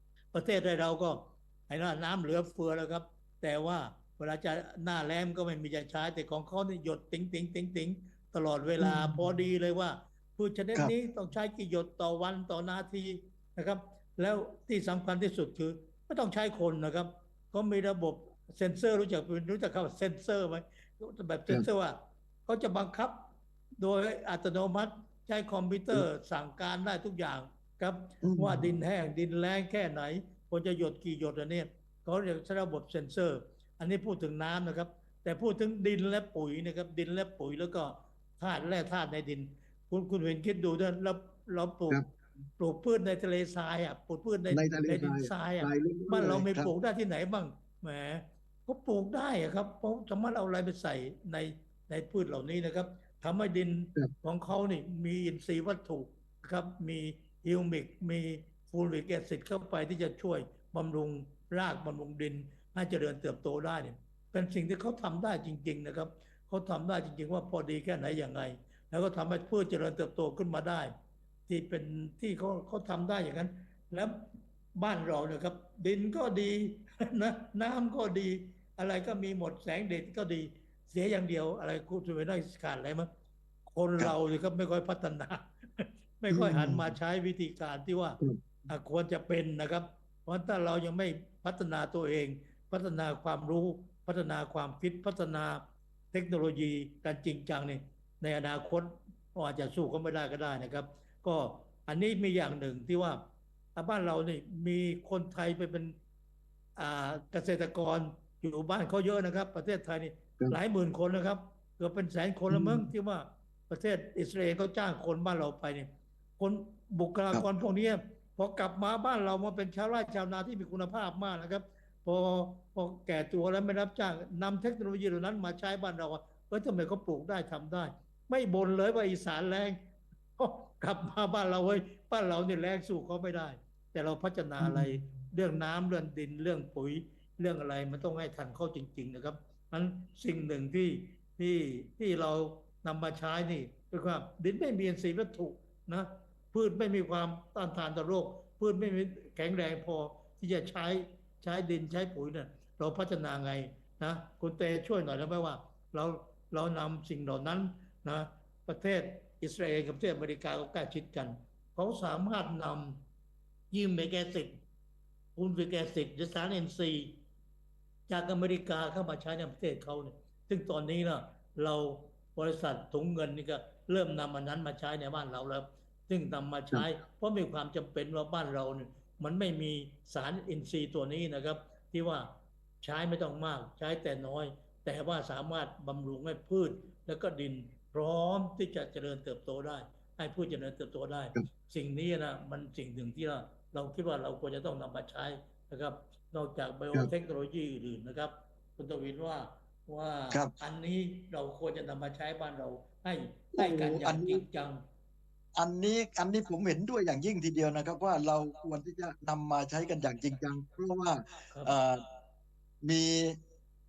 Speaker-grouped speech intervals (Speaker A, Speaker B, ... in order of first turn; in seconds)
Speaker A: 0.3-42.0, 42.6-70.9, 71.5-74.2, 74.8-83.1, 83.7-103.2, 103.8-106.0, 106.8-129.8, 130.4-163.0, 163.7-164.6, 165.3-167.2, 168.1-204.8
Speaker B: 8.8-9.2, 28.2-28.7, 44.5-46.7, 86.3-87.0, 112.5-112.9, 134.6-135.0, 203.5-204.4, 205.5-212.0, 212.8-213.4